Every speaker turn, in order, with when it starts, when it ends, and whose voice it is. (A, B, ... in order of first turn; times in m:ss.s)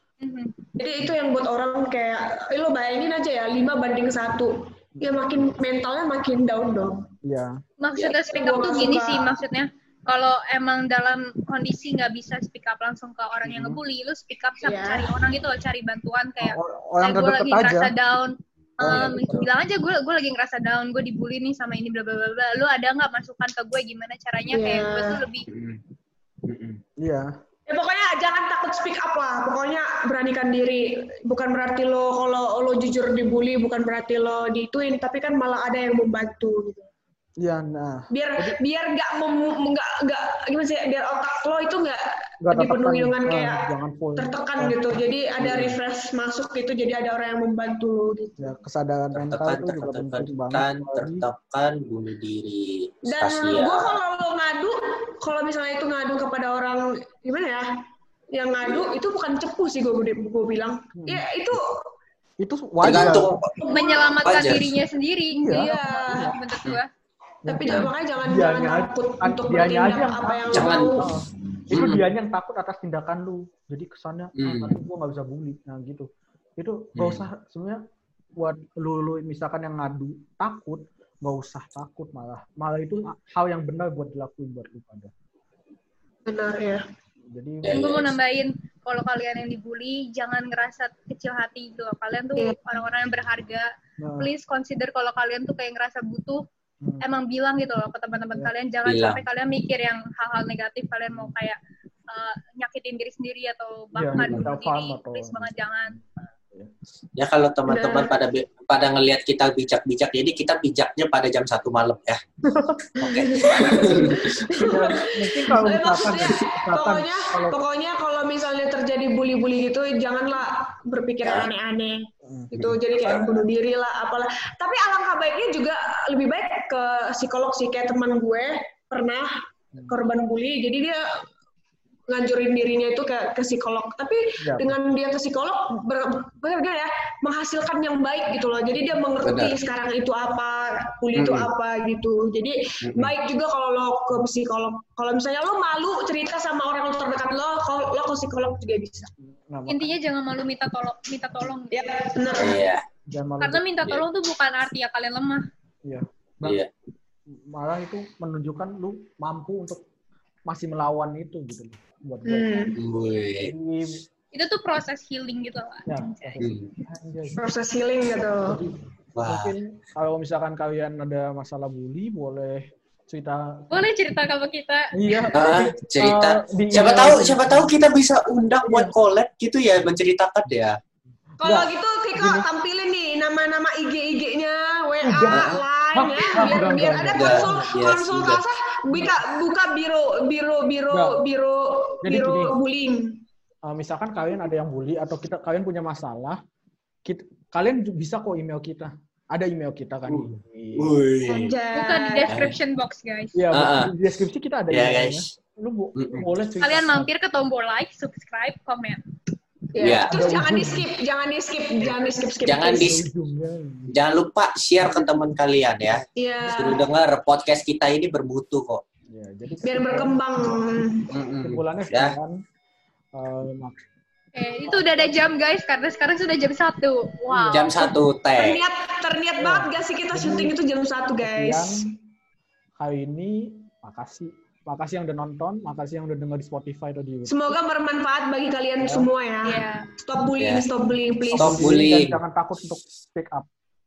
0:00.2-0:00.6 A
0:00.8-0:07.1 B
0:07.3-0:07.6 C
0:07.8-0:25.5 A
0:08.3-0:09.4 B
0:13.5-0:13.8 C
0:14.6-0:15.1 B
0:16.4-0:17.9 C
0:18.8-0:19.4 C
0:18.8-0:19.5 D
0:24.5-0:25.2 B
0:25.5-0:25.8 D
0:26.5-0:26.8 D
0:27.0-0:27.3 C
0:27.7-0:36.9 B
0:37.4-0:38.6 C
0:38.1-0:43.6 B
0:42.4-0:44.8 C
0:44.2-0:48.5 B
0:48.4-0:51.3 C
0:49.1-0:54.0 D
0:53.1-0:57.7 B
0:58.3-1:01.6 B
1:01.0-1:01.2 C
1:02.4-1:03.4 C
1:02.8-1:03.6 D
1:03.6-1:04.1 B
1:03.6-1:06.9 A
1:04.2-1:04.8 D
1:05.4-1:06.4 C
1:05.5-1:06.3 B
1:07.5-1:17.8 C
1:07.5-1:11.1 B
1:10.5-1:11.1 D
1:11.7-1:12.0 D
1:14.4-1:14.8 D
1:17.0-1:17.3 D
1:18.4-1:25.1 C
1:26.3-1:26.8 B
1:27.3-1:27.8 C
1:27.6-1:28.2 D
1:27.7-1:33.7 A
1:34.0-1:34.3 C
1:34.2-1:36.4 A
1:37.0-1:41.6 A
1:38.8-1:39.2 D
1:42.1-1:46.0 A
1:44.0-1:46.7 C
1:44.2-1:44.5 D
1:47.2-1:52.2 D
1:47.7-1:48.2 B
1:52.5-1:53.0 C
1:53.0-1:54.9 D
1:53.0-2:09.4 B
1:54.6-1:57.6 C
2:01.2-2:01.5 D
2:02.2-2:02.5 C
2:02.6-2:03.4 D
2:09.9-2:11.2 B
2:12.1-2:29.1 B
2:14.4-2:14.8 C
2:19.2-2:19.6 D
2:21.2-2:21.5 D
2:22.8-2:23.1 D
2:29.2-2:29.9 C
2:29.7-2:32.6 A
2:31.7-2:32.6 B
2:32.4-2:32.8 D
2:33.1-2:33.6 C
2:33.4-2:35.5 A
2:35.8-2:36.6 C
2:36.4-2:36.7 D
2:37.3-2:39.8 C
2:40.5-2:42.7 C
2:42.2-2:42.8 B
2:42.8-2:43.5 D
2:43.4-2:44.0 C
2:44.3-2:46.4 A
2:45.9-2:47.4 C
2:46.4-2:46.7 D
2:47.4-2:48.6 B
2:48.5-2:53.7 C
2:49.2-2:49.5 D
2:53.7-2:55.6 A
2:55.0-2:57.7 C
2:55.3-3:00.8 D
2:58.6-2:58.9 C
3:01.4-3:13.2 B
3:01.4-3:02.4 C
3:05.0-3:07.7 C
3:05.3-3:05.6 D
3:07.1-3:08.4 D
3:10.9-3:11.2 C
3:12.0-3:12.6 C
3:13.7-3:16.4 C
3:17.1-3:21.0 C
3:20.1-3:21.6 D
3:21.3-3:22.5 B
3:21.7-3:23.4 A
3:22.3-3:22.6 D
3:23.4-3:27.1 C
3:23.5-3:23.9 D
3:24.7-3:25.3 D
3:26.0-3:26.3 D
3:26.6-3:29.0 A
3:29.7-3:33.0 B
3:29.8-3:30.1 D
3:30.1-3:30.9 C
3:32.4-3:33.0 D
3:32.8-3:33.9 C
3:33.9-3:38.8 D
3:36.2-3:36.8 B
3:39.1-3:40.6 C
3:39.6-3:41.1 B
3:41.1-3:42.2 D
3:41.4-3:42.4 C
3:43.2-3:43.8 C
3:44.4-3:47.8 A
3:44.7-3:45.2 C
3:47.3-3:47.7 C
3:47.5-3:48.6 D
3:48.4-3:51.8 B
3:49.4-3:50.5 C
3:51.2-3:51.8 C
3:52.8-3:57.6 C
3:57.3-4:01.8 B
3:58.8-3:59.1 C
3:59.4-3:59.9 A
4:00.4-4:00.7 D
4:01.3-4:02.2 D
4:01.3-4:03.5 C